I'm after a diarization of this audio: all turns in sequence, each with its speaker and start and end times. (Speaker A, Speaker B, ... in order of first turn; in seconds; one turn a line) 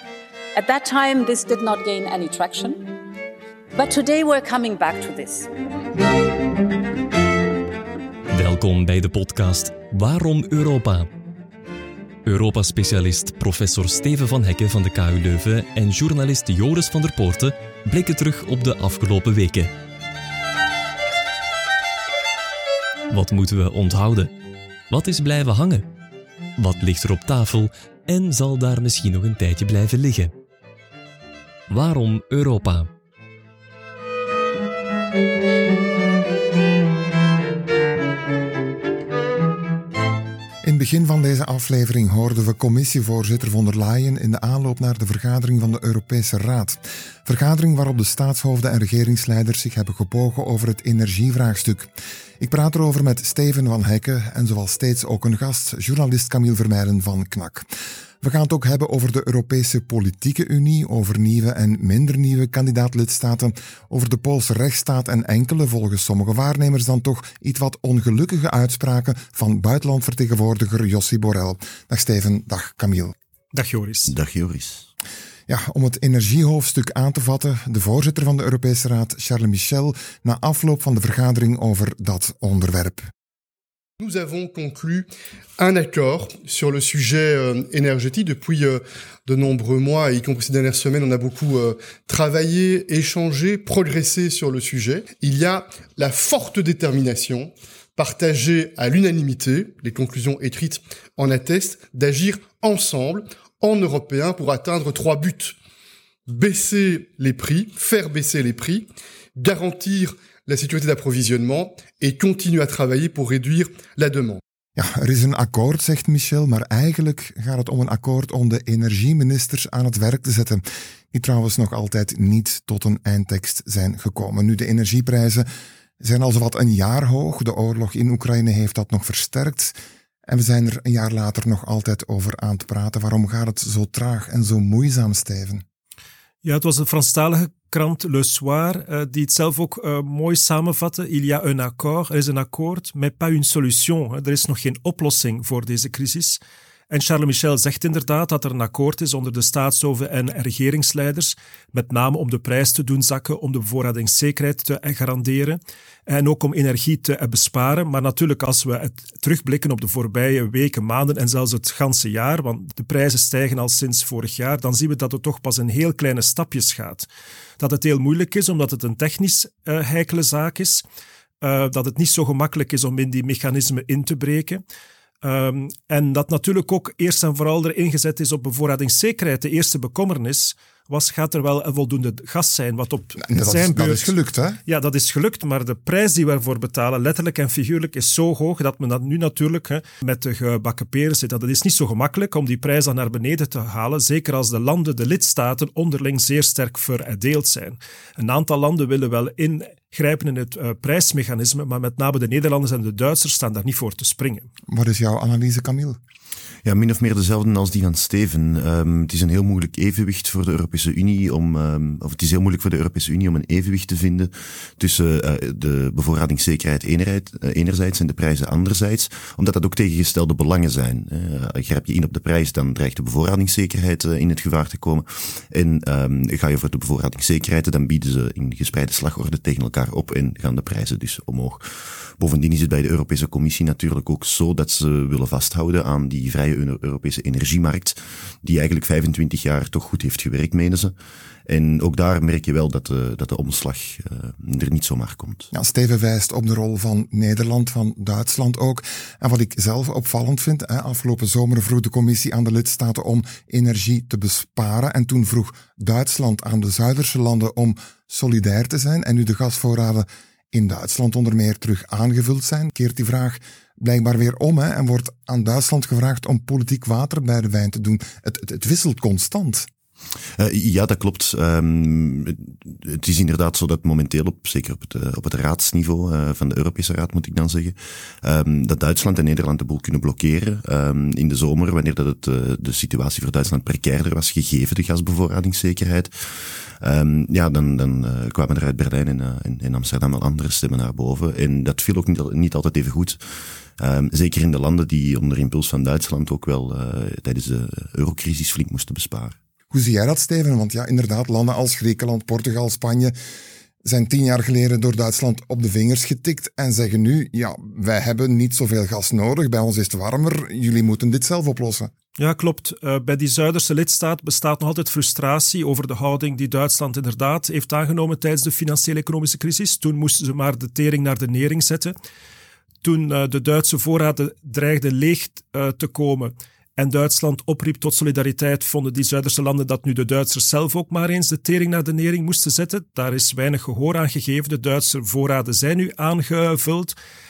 Speaker A: 0.5-2.9
Speaker A: 3.7-5.5
Speaker B: 8.3-11.1
Speaker B: 12.2-19.7
Speaker B: 23.1-24.3
Speaker B: 24.9-25.9
Speaker B: 26.6-30.3
Speaker B: 31.7-32.9
Speaker C: 40.6-57.7
Speaker C: 58.2-73.1
Speaker D: 73.5-74.1
Speaker E: 74.1-74.9
Speaker C: 75.5-83.1
Speaker F: 84.0-105.5
Speaker F: 106.3-114.4
Speaker C: 114.8-125.5
Speaker C: 126.0-129.8
Speaker C: 130.3-135.6
Speaker D: 136.4-167.1
Speaker D: 167.6-170.8
Speaker D: 171.4-174.6
Speaker D: 175.2-184.1
Speaker C: 183.2-184.6
Speaker D: 184.7-204.5
Speaker C: 204.7-206.0
Speaker E: 206.6-240.9
Speaker E: 241.5-245.5
Speaker C: 245.5-269.7
Speaker E: 270.4-293.2
Speaker E: 293.8-299.4
Speaker C: 299.7-303.1
Speaker C: 303.8-311.9
Speaker D: 312.2-321.9
Speaker D: 322.8-336.9